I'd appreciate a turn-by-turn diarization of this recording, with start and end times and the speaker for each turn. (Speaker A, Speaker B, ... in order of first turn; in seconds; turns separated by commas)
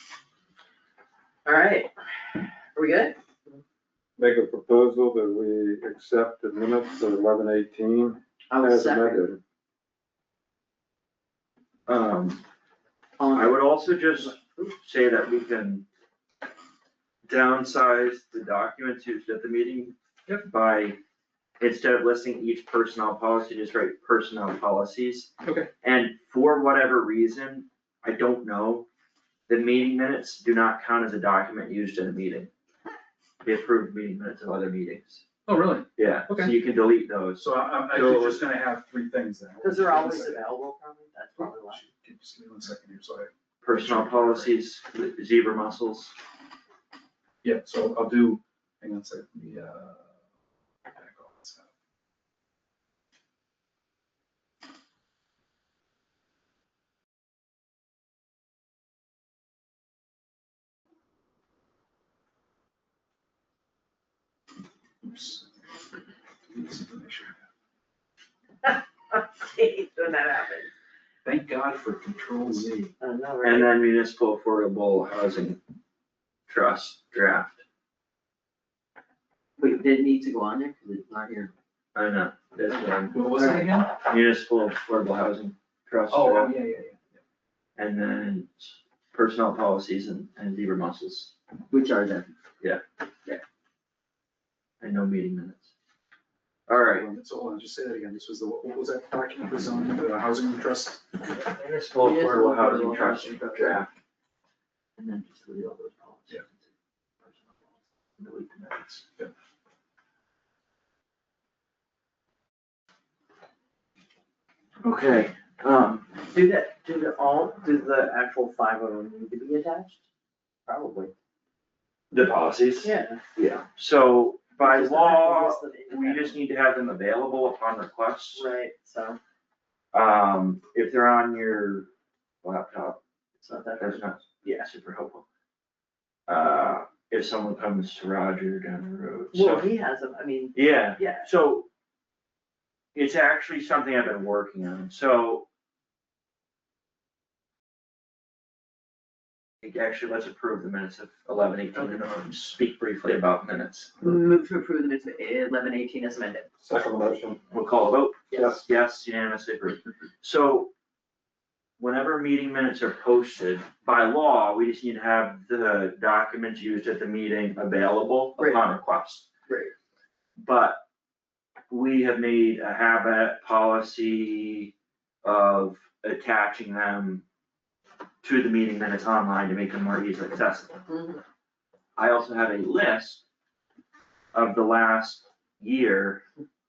Speaker A: 1.5-3.2, Speaker B: 4.2-9.4, Speaker A: 8.5-9.3, Speaker C: 11.9-12.4, Speaker A: 13.2-13.6, Speaker C: 13.3-15.9, Speaker A: 14.3-14.7, Speaker C: 17.2-21.0, Speaker C: 21.6-25.3, Speaker D: 25.4-25.7, Speaker C: 25.8-28.9, Speaker C: 29.5-32.5, Speaker C: 33.4-35.2, Speaker D: 35.5-36.5, Speaker C: 36.0-38.5, Speaker D: 37.4-40.4, Speaker A: 39.6-41.8, Speaker D: 41.4-44.5, Speaker C: 43.6-46.1, Speaker D: 47.4-50.1, Speaker D: 50.9-51.7, Speaker D: 65.0-65.5, Speaker D: 66.5-67.4, Speaker A: 68.6-70.7, Speaker D: 71.2-72.9, Speaker A: 73.0-73.7, Speaker C: 73.4-75.6, Speaker C: 76.5-77.6, Speaker A: 79.6-81.5, Speaker C: 82.0-86.6, Speaker D: 83.1-83.9, Speaker D: 86.1-87.1, Speaker C: 87.8-91.3, Speaker A: 91.7-92.3, Speaker C: 94.8-95.7, Speaker C: 96.7-97.1, Speaker D: 96.8-101.0, Speaker C: 101.3-103.9, Speaker A: 102.0-103.8, Speaker C: 105.0-106.7, Speaker C: 108.2-109.1, Speaker C: 114.8-116.2, Speaker A: 116.3-120.0, Speaker A: 120.7-121.1, Speaker C: 122.1-128.5, Speaker A: 122.8-123.2, Speaker A: 124.6-126.4, Speaker A: 128.4-129.2, Speaker C: 129.9-131.9, Speaker C: 132.4-133.0, Speaker A: 133.4-134.0, Speaker C: 133.8-135.2, Speaker C: 136.3-139.7, Speaker A: 139.3-141.3, Speaker C: 140.6-141.7, Speaker C: 142.9-145.5, Speaker C: 149.6-153.9, Speaker A: 154.0-156.5, Speaker B: 156.6-157.4, Speaker C: 157.5-160.7, Speaker A: 158.3-158.6, Speaker C: 161.8-169.3, Speaker A: 168.4-168.7, Speaker C: 170.4-170.8, Speaker C: 171.7-174.7, Speaker C: 175.2-177.2, Speaker C: 178.2-180.8, Speaker A: 180.9-181.2, Speaker C: 182.0-183.2, Speaker C: 184.3-186.2